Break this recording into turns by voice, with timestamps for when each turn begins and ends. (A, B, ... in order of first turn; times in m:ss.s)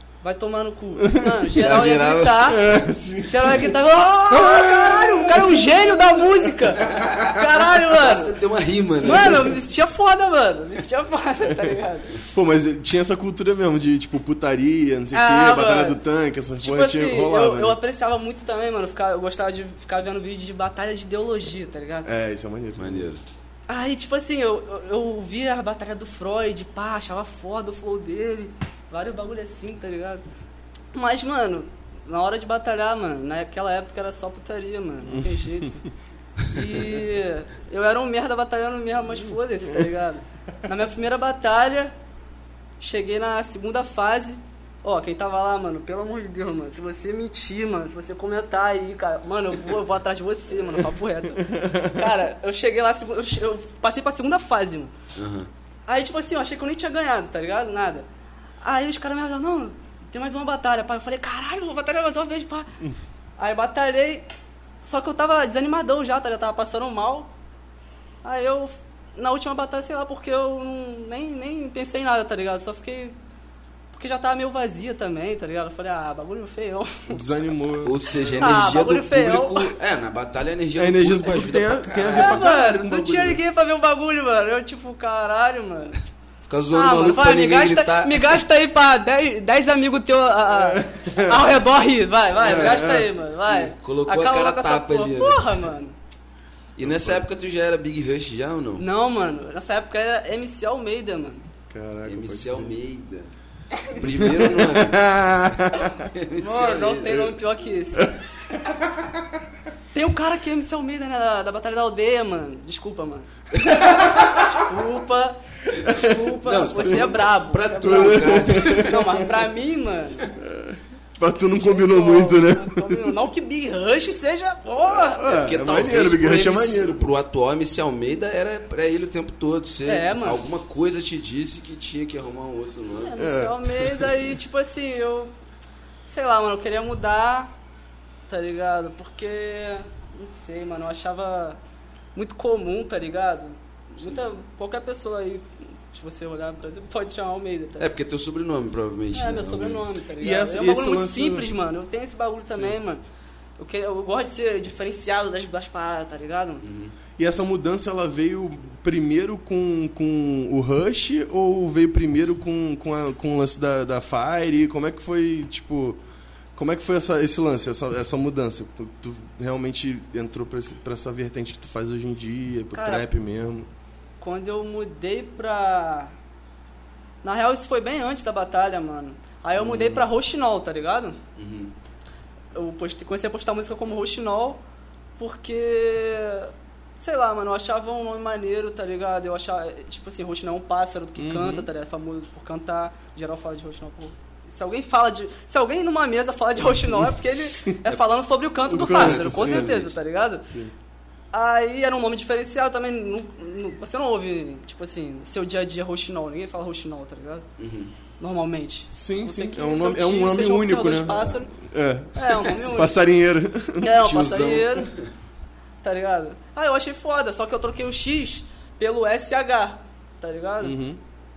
0:00.2-0:08.3 A
0:01.0-0:01.4 B
0:01.5-0:02.6 C
0:02.5-0:03.7 B
0:04.3-0:06.5 B
0:06.9-0:07.2 C
0:07.8-0:09.5 C
0:09.0-0:12.2 A
0:12.3-0:17.8 B
0:15.1-0:16.0 A
0:16.6-0:22.1 A
0:22.0-0:23.1 B
0:22.8-0:23.2 C
0:23.7-0:30.2 A
0:30.9-0:35.8 A
0:35.0-0:35.7 B
0:36.4-0:41.9 A
0:42.8-0:54.9 A
0:51.4-0:52.0 B
0:55.1-0:55.5 C
0:55.9-0:58.0 A
0:58.6-1:02.7 A
1:03.4-1:04.3 A
1:04.8-1:07.3 A
1:08.2-1:13.2 A
1:13.9-1:17.2 A
1:17.1-1:18.0 B
1:17.8-1:22.5 C
1:18.4-1:19.7 A
1:20.7-1:23.4 B
1:22.1-1:26.0 A
1:26.4-1:28.4 C
1:26.7-1:36.0 A
1:30.5-1:31.4 B
1:32.4-1:33.1 B
1:32.5-1:32.8 C
1:33.5-1:35.7 C
1:36.8-1:38.8 C
1:36.8-1:37.2 B
1:38.8-1:41.4 A
1:41.7-1:42.7 B
1:42.0-1:43.3 C
1:43.8-1:44.3 A
1:43.9-1:45.1 C
1:44.0-1:45.9 B
1:45.8-1:47.3 C
1:46.4-1:48.1 A
1:48.0-1:49.4 B
1:49.9-2:00.3 A
1:53.6-1:54.3 C
1:55.8-1:56.3 B
1:56.4-1:59.2 C
1:56.8-1:57.1 B
1:57.8-1:59.0 B
2:00.4-2:03.1 B
2:01.6-2:05.2 A
2:05.0-2:07.1 B
2:05.2-2:13.1 C
2:09.8-2:10.4 A
2:12.9-2:15.3 A
2:13.2-2:14.4 B
2:16.0-2:17.5 A
2:18.3-2:21.6 A
2:22.1-2:27.9 A
2:23.9-2:24.2 C
2:27.8-2:29.9 C
2:29.1-2:33.0 A
2:30.2-2:31.5 B
2:32.5-2:32.8 B
2:33.6-2:36.6 A
2:36.6-2:36.9 C
2:37.2-2:46.0 B
2:46.5-2:53.7 B
2:52.7-2:53.1 A
2:54.2-2:56.1 A
2:57.2-3:01.2 A
2:59.6-3:00.0 C
3:01.4-3:01.7 C
3:02.5-3:04.6 A
3:05.2-3:20.4 A
3:11.2-3:11.7 B
3:18.6-3:20.0 C
3:18.6-3:19.7 B
3:21.3-3:27.4 A
3:27.6-3:27.9 C
3:28.2-3:31.5 A
3:28.9-3:34.0 B
3:32.1-3:33.0 A
3:33.8-3:34.9 A
3:34.0-3:35.1 C
3:35.8-3:40.8 A
3:40.6-3:41.0 B